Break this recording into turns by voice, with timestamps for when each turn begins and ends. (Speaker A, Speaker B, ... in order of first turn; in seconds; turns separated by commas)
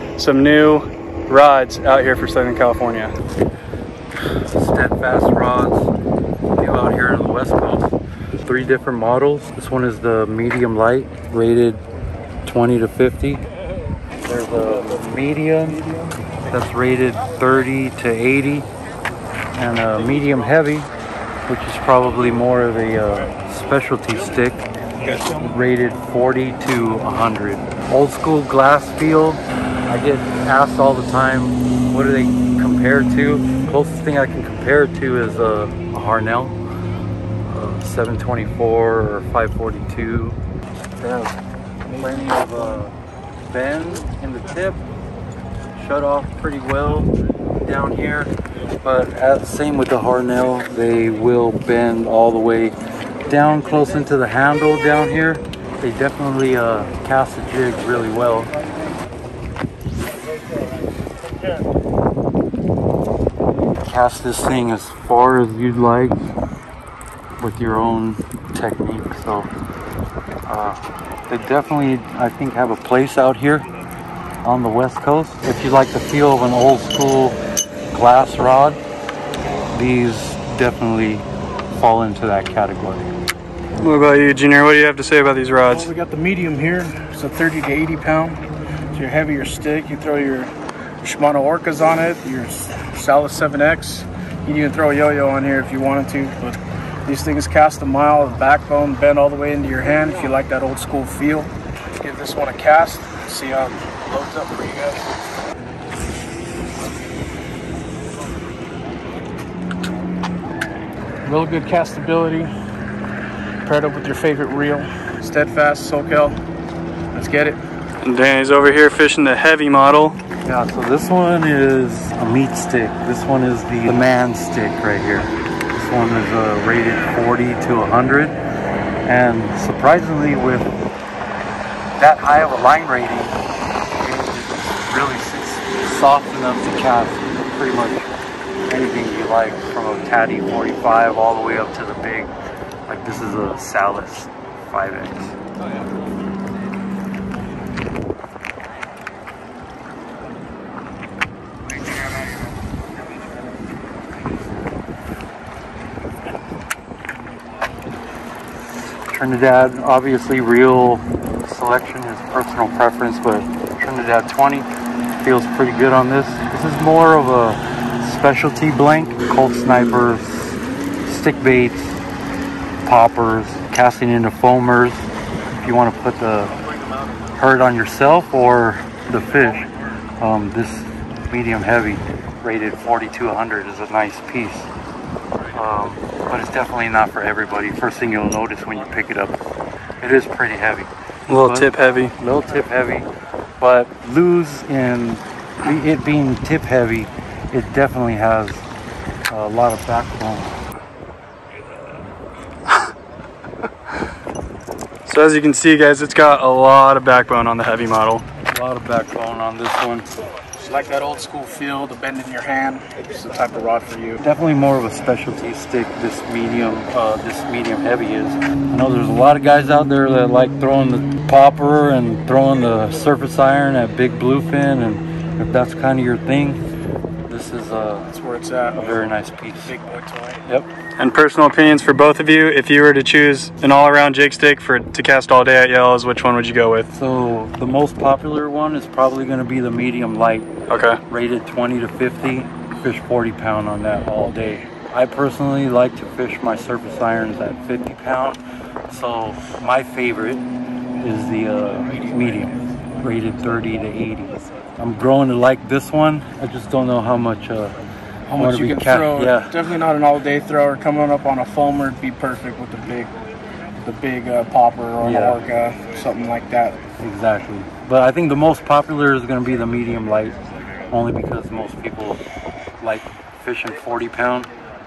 Speaker A: 0.2-3.1, Speaker B: 4.4-5.9, Speaker B: 6.5-11.8, Speaker B: 12.4-13.4, Speaker B: 14.2-15.9, Speaker B: 16.5-18.7, Speaker B: 19.5-20.9, Speaker B: 21.4-36.6, Speaker B: 37.5-40.4, Speaker B: 41.0-41.4, Speaker C: 41.9-42.8, Speaker B: 41.9-42.9, Speaker B: 43.5-44.8, Speaker B: 45.7-52.8, Speaker B: 53.3-58.5, Speaker B: 63.8-66.2, Speaker B: 67.4-69.5, Speaker B: 70.5-73.7, Speaker B: 74.4-77.4, Speaker B: 77.9-78.8, Speaker B: 79.7-83.1, Speaker A: 83.8-85.9, Speaker C: 85.7-88.4, Speaker C: 88.9-105.1, Speaker C: 111.2-112.5, Speaker C: 113.6-116.3, Speaker C: 117.1-117.6, Speaker A: 118.0-120.2, Speaker B: 120.4-128.4, Speaker B: 129.0-130.7, Speaker B: 132.0-133.4, Speaker B: 134.0-138.1, Speaker B: 138.7-142.3, Speaker B: 142.9-145.3, Speaker B: 159.1-172.0, Speaker B: 172.8-175.1, Speaker B: 175.6-176.5, Speaker B: 177.3-184.7, Speaker B: 185.5-189.4, Speaker B: 190.0-198.7, Speaker A: 191.3-192.1, Speaker B: 199.3-200.6, Speaker A: 205.1-208.2, Speaker B: 208.5-210.1, Speaker C: 210.6-214.2, Speaker B: 214.2-226.6, Speaker B: 227.3-228.1, Speaker C: 228.1-230.4, Speaker B: 228.7-229.7, Speaker A: 231.0-236.9, Speaker B: 236.9-240.5, Speaker A: 240.7-241.0, Speaker B: 241.1-250.4, Speaker B: 251.0-257.8, Speaker C: 251.7-253.1, Speaker C: 258.3-263.1, Speaker B: 258.3-259.6, Speaker C: 263.8-266.8, Speaker B: 265.0-265.4, Speaker B: 267.0-272.2, Speaker B: 272.8-274.5